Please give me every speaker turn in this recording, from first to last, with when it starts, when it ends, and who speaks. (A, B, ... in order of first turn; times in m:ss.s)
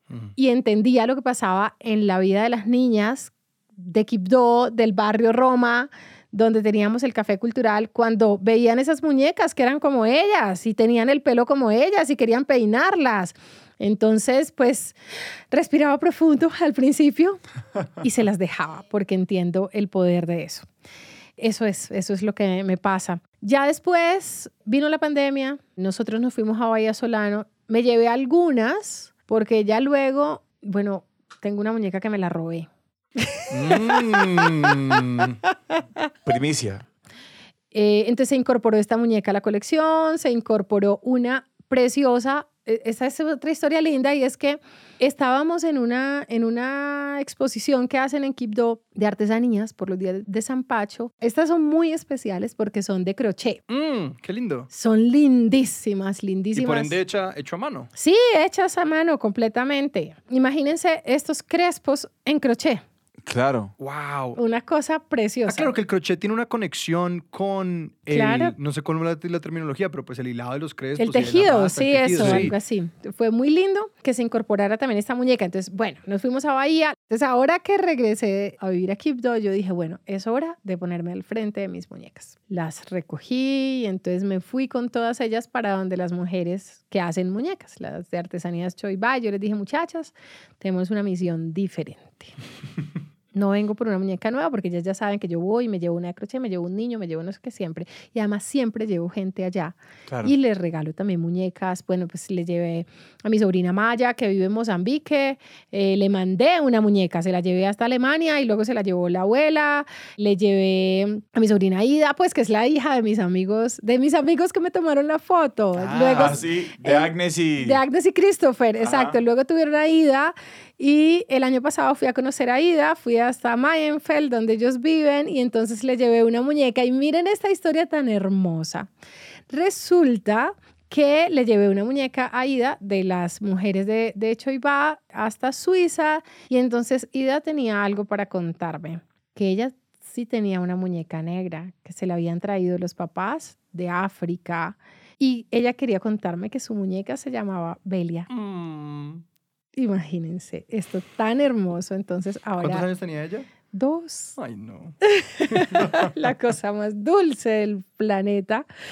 0:00.4-0:15.0 A
0:15.5-0:17.4 A
0:18.0-0:20.7 A
0:21.4-0:35.8 A
0:33.5-0:35.4 B
0:36.3-0:36.8 C
0:37.7-0:53.6 A
0:53.7-0:54.7 B
0:54.7-0:57.0 A
0:56.5-0:57.9 B
0:58.0-1:02.8 A
1:03.2-1:03.7 C
1:03.8-1:04.4 B
1:04.4-1:05.7 A
1:05.5-1:12.5 B
1:08.1-1:08.6 A
1:11.0-1:32.3 A
1:12.2-1:12.5 C
1:33.3-2:08.9 A
1:55.8-1:57.8 C
1:58.8-1:59.2 C
2:09.5-2:28.3 A
2:28.3-2:29.2 B
2:29.7-2:32.9 A
2:32.6-2:33.5 B
2:33.7-2:34.4 A
2:34.4-2:35.0 B
2:35.0-2:38.7 A
2:35.5-2:36.1 B